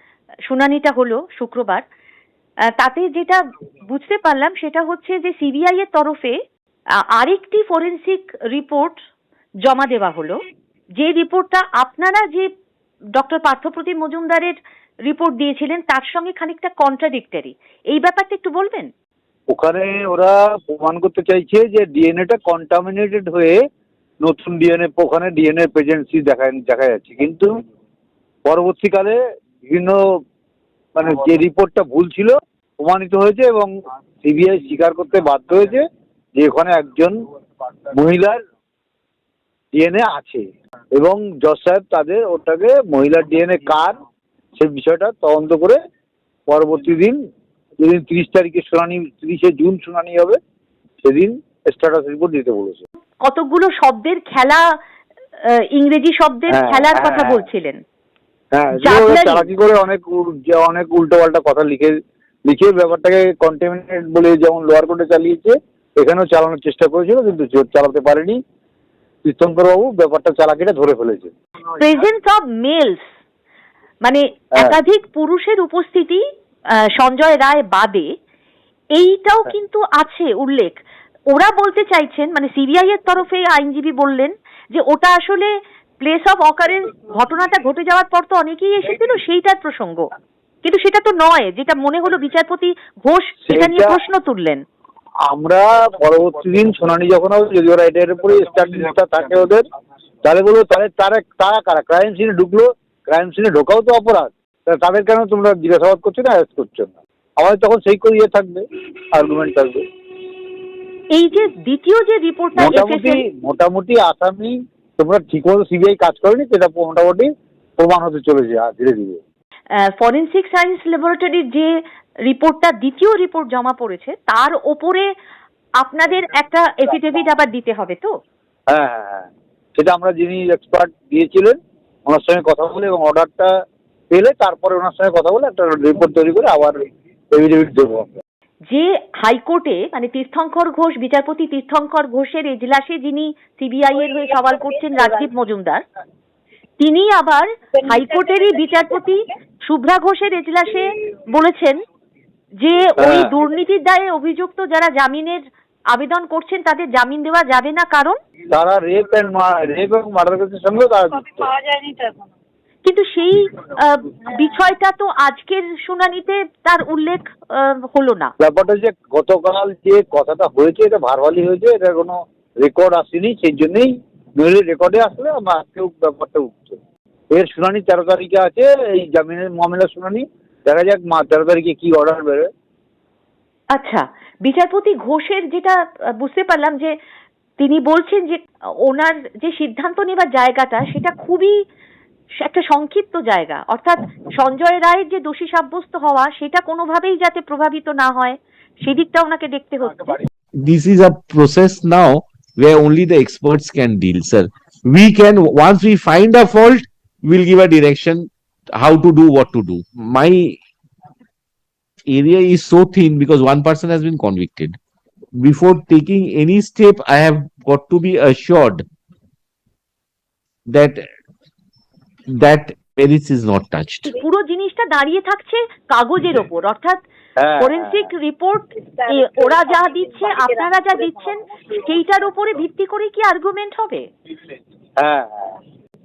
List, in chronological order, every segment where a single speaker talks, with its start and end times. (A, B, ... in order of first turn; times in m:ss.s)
0:00.5-0:01.8 A
0:02.8-0:06.4 A
0:07.2-0:09.0 A
0:09.6-0:10.4 A
0:11.0-0:12.5 A
0:13.2-0:18.9 A
0:19.5-0:23.6 B
0:24.2-0:27.5 B
0:28.4-0:30.0 B
0:31.0-0:37.2 B
0:37.9-0:38.4 B
0:39.7-0:40.4 B
0:40.9-0:44.0 B
0:44.6-0:45.8 B
0:46.5-0:47.2 B
0:47.8-0:50.4 B
0:51.0-0:52.8 B
0:53.2-0:54.6 A
0:55.4-0:57.8 A
0:56.5-0:57.5 B
0:58.5-1:08.4 B
0:58.8-0:59.5 A
1:09.2-1:11.3 B
1:11.8-1:13.0 A
1:14.0-1:16.2 A
1:17.0-1:18.1 A
1:19.0-1:20.8 A
1:21.3-1:30.1 A
1:30.6-1:34.6 A
1:33.5-1:34.0 B
1:35.2-1:39.6 B
1:40.2-1:49.8 B
1:51.1-1:53.2 A
1:52.6-1:59.2 B
1:59.8-2:05.1 A
2:05.8-2:08.1 A
2:08.7-2:13.5 B
2:14.1-2:16.8 B
2:17.3-2:18.2 B
2:18.7-2:25.8 A
2:26.8-2:31.8 A
2:32.6-2:38.2 A
2:33.0-2:33.3 B
2:38.5-2:41.5 B
2:41.3-2:42.3 C
2:42.8-2:48.3 A
2:48.4-2:56.8 B
2:57.3-3:02.5 B
3:03.7-3:06.9 A
3:07.6-3:11.6 A
3:12.4-3:20.2 A
3:20.6-3:30.6 D
3:32.1-3:34.8 D
3:35.3-3:38.8 D
3:40.7-3:41.0 D
3:42.3-3:44.1 D
3:44.0-3:47.0 A
3:47.4-3:48.1 B
3:47.6-3:54.1 A
3:49.0-3:49.6 C
3:50.2-3:50.9 C
3:55.0-3:55.5 B